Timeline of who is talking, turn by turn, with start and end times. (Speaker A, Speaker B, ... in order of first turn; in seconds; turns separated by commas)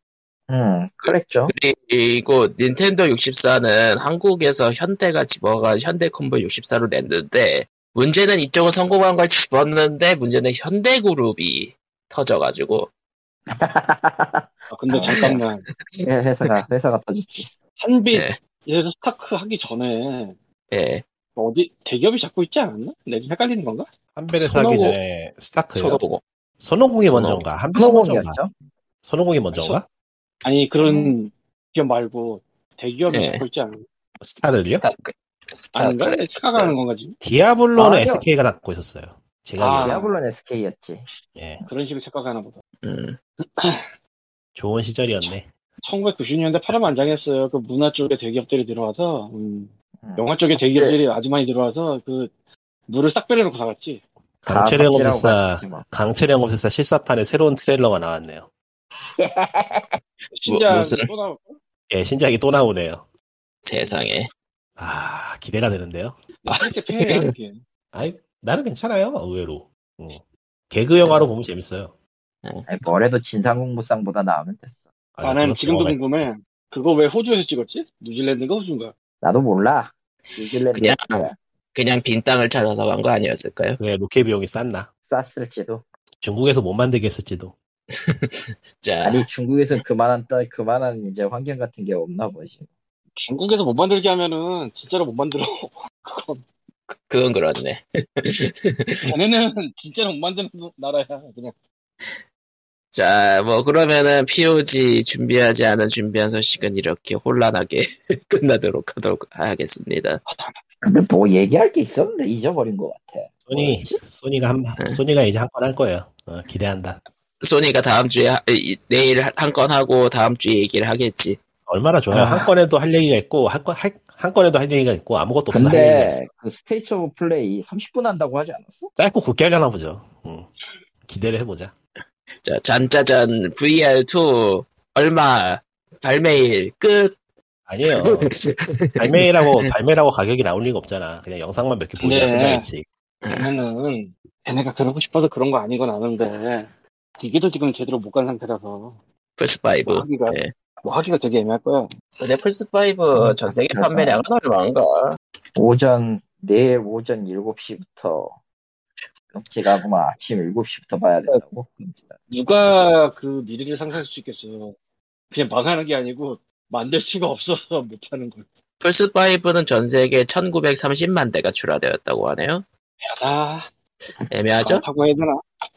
Speaker A: 0.5-1.5, Speaker B: 1.1-12.9, Speaker A: 13.5-15.4, Speaker C: 14.7-15.7, Speaker B: 15.1-15.4, Speaker A: 16.0-17.5, Speaker C: 17.8-20.4, Speaker B: 18.1-18.4, Speaker B: 20.7-21.0, Speaker C: 21.4-23.9, Speaker D: 24.2-26.0, Speaker B: 24.3-25.0, Speaker B: 25.8-26.2, Speaker D: 26.6-28.4, Speaker B: 27.1-27.4, Speaker A: 27.8-28.5, Speaker D: 29.1-29.9, Speaker C: 29.5-29.8, Speaker C: 30.4-33.9, Speaker A: 30.8-31.1, Speaker B: 33.1-33.4, Speaker D: 34.2-34.9, Speaker B: 34.8-36.8, Speaker C: 35.8-37.2, Speaker D: 37.2-40.1, Speaker A: 37.8-38.3, Speaker C: 39.6-40.1, Speaker A: 39.8-41.0, Speaker D: 41.4-41.6, Speaker C: 41.7-42.6, Speaker B: 42.8-43.2, Speaker C: 43.4-43.9, Speaker D: 44.6-45.5, Speaker C: 45.8-52.3, Speaker A: 50.0-51.0, Speaker C: 52.9-54.0, Speaker D: 54.4-58.5, Speaker A: 54.5-55.9, Speaker A: 59.2-60.0, Speaker C: 60.3-61.6, Speaker B: 60.5-61.1, Speaker D: 61.9-63.0, Speaker B: 63.6-64.3, Speaker D: 64.8-66.2, Speaker B: 66.5-67.2, Speaker C: 66.5-67.6, Speaker D: 67.9-72.0, Speaker B: 71.0-71.3, Speaker A: 72.7-74.8, Speaker D: 75.2-76.3, Speaker C: 75.2-78.9, Speaker A: 79.2-81.3, Speaker B: 80.7-83.8, Speaker D: 83.8-84.9, Speaker A: 85.1-85.8, Speaker D: 86.2-87.5, Speaker B: 87.9-89.3, Speaker A: 89.0-92.7, Speaker C: 93.2-96.5, Speaker B: 96.9-99.0, Speaker C: 99.1-101.5, Speaker B: 102.9-110.2, Speaker C: 110.3-110.5, Speaker A: 110.8-114.0, Speaker D: 113.5-117.0, Speaker B: 117.4-121.4, Speaker D: 121.7-126.3, Speaker A: 122.1-122.5, Speaker A: 125.5-128.9, Speaker D: 129.0-130.5, Speaker D: 131.1-131.7, Speaker B: 132.4-137.2, Speaker D: 137.7-138.3, Speaker B: 137.9-139.7, Speaker D: 139.0-142.9, Speaker C: 142.0-142.7, Speaker B: 143.2-143.5, Speaker C: 143.3-149.0, Speaker B: 149.4-150.5, Speaker C: 149.8-151.9, Speaker B: 152.2-155.2, Speaker A: 153.2-154.2, Speaker A: 155.6-158.4, Speaker A: 159.3-162.2, Speaker C: 162.3-164.8, Speaker C: 165.3-168.5, Speaker B: 168.8-172.7, Speaker C: 173.0-173.7, Speaker B: 174.3-174.8, Speaker C: 174.6-175.6